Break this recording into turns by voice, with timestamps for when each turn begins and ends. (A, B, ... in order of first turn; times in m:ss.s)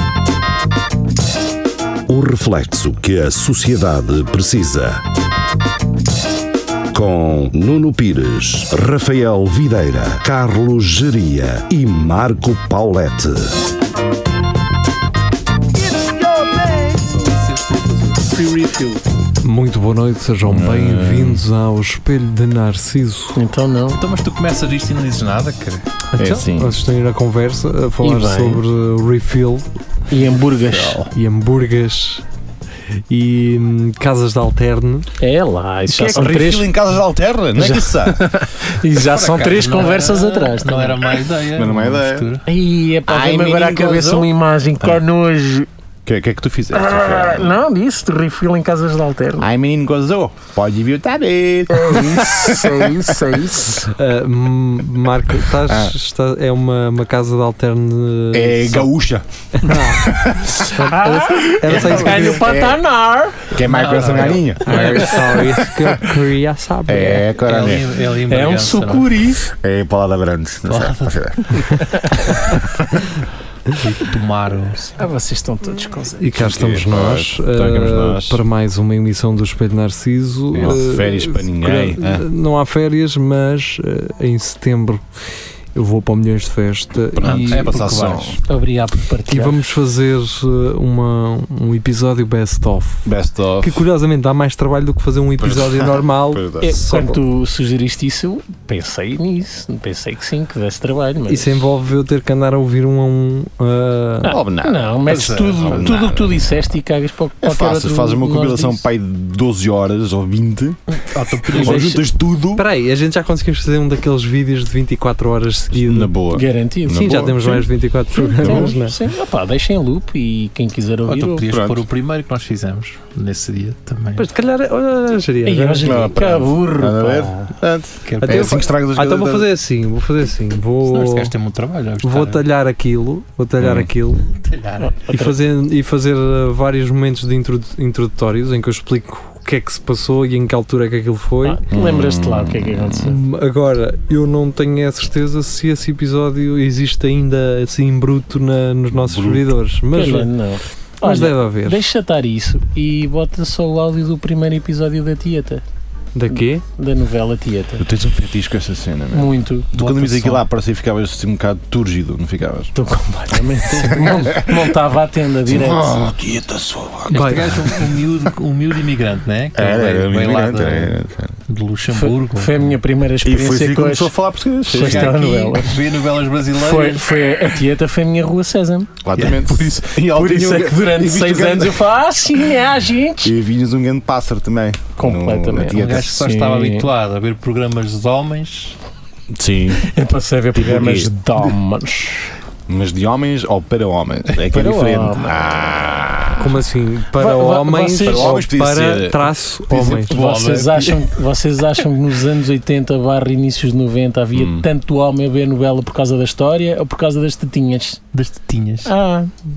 0:02.1-0:05.1 A
0:06.9-0:13.6 A
0:16.0-0:17.2 B
0:17.0-0:18.4 C
0:18.3-0:19.0 B
0:19.4-0:23.4 D
0:20.5-0:21.4 E
0:23.3-0:24.0 B
0:24.0-0:25.8 C
0:26.1-0:29.7 D
0:26.2-0:26.8 E
0:28.0-0:28.6 B
0:30.1-0:31.1 B
0:30.6-0:31.1 C
0:31.1-0:32.2 D
0:33.1-0:35.1 D
0:35.2-0:36.7 B
0:35.9-0:36.2 D
0:36.2-0:38.2 E
0:37.6-0:41.0 B
0:38.9-0:42.4 C
0:41.5-0:42.3 E
0:42.5-0:45.7 B
0:43.1-0:45.0 E
0:46.1-0:47.5 E
0:46.7-0:49.5 B
0:49.4-0:53.0 E
0:51.7-0:53.9 B
0:53.9-0:58.9 D
0:55.7-0:56.0 E
0:58.3-0:59.2 E
0:59.6-1:00.1 D
0:59.9-1:00.5 E
1:00.6-1:02.5 D
1:00.8-1:03.6 B
1:01.7-1:02.8 E
1:03.5-1:06.0 E
1:03.6-1:04.9 C
1:04.6-1:07.3 D
1:06.9-1:07.8 E
1:07.5-1:09.2 C
1:08.3-1:09.5 B
1:09.6-1:11.6 E
1:10.7-1:11.5 C
1:13.8-1:15.0 C
1:15.0-1:16.3 B
1:16.2-1:25.0 D
1:16.3-1:18.4 E
1:20.5-1:22.3 E
1:25.7-1:27.8 D
1:27.2-1:28.4 E
1:27.2-1:28.4 C
1:28.5-1:29.6 B
1:29.3-1:33.1 D
1:33.0-1:33.8 E
1:33.6-1:37.2 D
1:35.4-1:36.8 E
1:36.6-1:41.6 B
1:41.3-1:44.4 D
1:44.2-1:45.0 E
1:44.3-1:48.9 B
1:45.0-1:46.1 C
1:45.6-1:46.4 E
1:47.4-1:50.8 E
1:50.9-1:51.8 C
1:51.5-1:52.6 E
1:51.6-1:52.0 B
1:52.6-1:56.1 D
1:55.7-1:57.7 E
1:56.3-1:57.1 B
1:56.9-1:59.0 D
1:58.1-2:01.4 B
1:58.4-1:58.7 E
2:01.1-2:04.3 C
2:01.4-2:01.8 E
2:04.2-2:06.0 D
2:05.4-2:07.5 B
2:05.8-2:09.5 E
2:08.1-2:08.6 C
2:08.2-2:11.3 D
2:10.9-2:12.4 C
2:12.0-2:14.3 D
2:13.6-2:13.9 E
2:14.3-2:15.0 C
2:14.8-2:15.4 B
2:15.1-2:21.6 D
2:21.4-2:23.2 B
2:21.7-2:23.1 E
2:23.1-2:30.3 D
2:29.0-2:29.5 E
2:29.9-2:35.6 B
2:31.0-2:31.8 D
2:36.2-2:36.6 D
2:36.3-2:37.8 B
2:37.8-2:42.7 E
2:39.1-2:39.7 B
2:39.7-2:40.4 C
2:42.8-2:46.0 B
2:43.7-2:44.5 C
2:45.5-2:47.9 E
2:47.1-2:47.5 D
2:47.1-2:52.8 C
2:49.6-2:51.3 E
2:51.9-2:54.1 B
2:53.2-2:55.5 E
2:54.7-2:55.8 B
2:54.8-2:57.5 C
2:56.5-3:03.3 B
2:59.0-3:01.9 E
2:59.2-2:59.5 C
3:03.2-3:06.1 E
3:05.0-3:06.9 B
3:05.7-3:08.8 C
3:09.3-3:09.9 E
3:09.8-3:12.3 B
3:10.5-3:11.2 E
3:12.7-3:16.6 E
3:14.4-3:15.6 B
3:16.4-3:20.1 D
3:17.1-3:18.4 B
3:18.0-3:20.1 E
3:20.1-3:21.2 C
3:20.1-3:28.0 B
3:24.4-3:24.7 E
3:28.1-3:28.9 C
3:28.8-3:29.4 B